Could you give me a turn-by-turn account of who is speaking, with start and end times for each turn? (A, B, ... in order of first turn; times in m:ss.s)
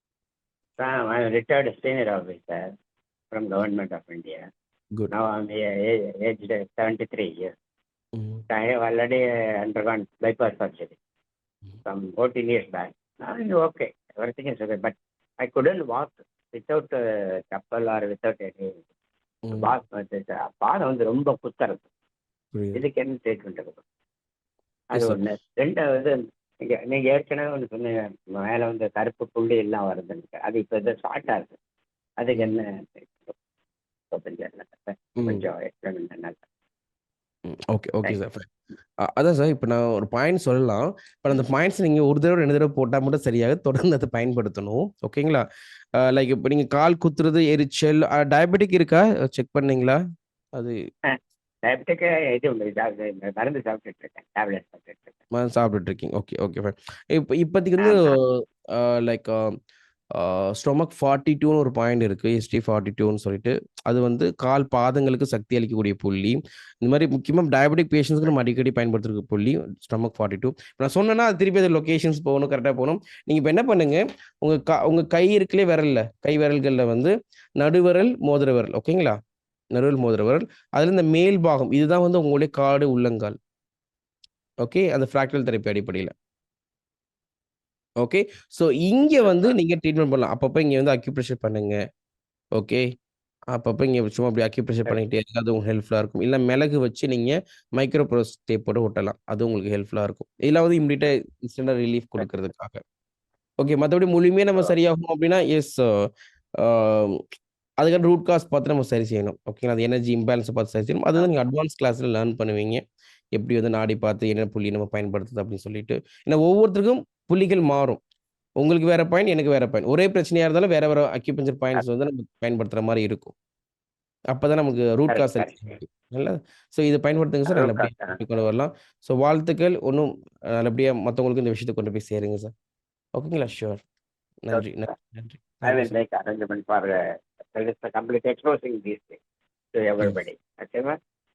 0:00.8-0:02.6 A
0:03.3-0:04.4 A
0:05.1-0:07.5 A
0:08.2-0:08.4 B
0:08.5-0:11.0 A
0:11.8-0:17.0 A
0:17.5-0:18.8 A
0:19.5-0:19.8 B
0:19.5-0:21.9 A
0:22.5-0:22.8 B
0:22.8-0:23.8 A
0:24.9-0:31.6 A
0:25.0-0:25.2 B
0:32.2-0:33.4 A
0:32.3-0:32.6 B
0:34.1-0:36.4 A
0:35.2-0:35.4 B
0:37.5-0:38.5 B
0:39.0-0:45.4 B
0:46.0-0:50.0 B
0:51.1-0:55.2 A
0:55.3-0:59.5 B
0:57.8-0:58.2 A
1:00.2-1:19.2 B
1:19.8-1:23.4 B
1:24.6-1:26.1 B
1:28.0-1:31.8 B
1:29.2-1:29.6 A
1:32.6-1:32.8 B
1:33.5-1:42.8 B
1:43.6-1:46.1 B
1:46.6-1:47.2 B
1:47.8-1:52.8 B
1:53.4-1:58.0 B
1:58.6-2:03.3 B
2:04.3-2:12.5 B
2:05.1-2:05.8 A
2:07.5-2:08.2 A
2:13.2-2:13.8 B
2:14.4-2:16.0 B
2:14.5-2:15.0 A
2:15.6-2:17.0 A
2:17.5-2:19.2 A
2:19.7-2:21.0 A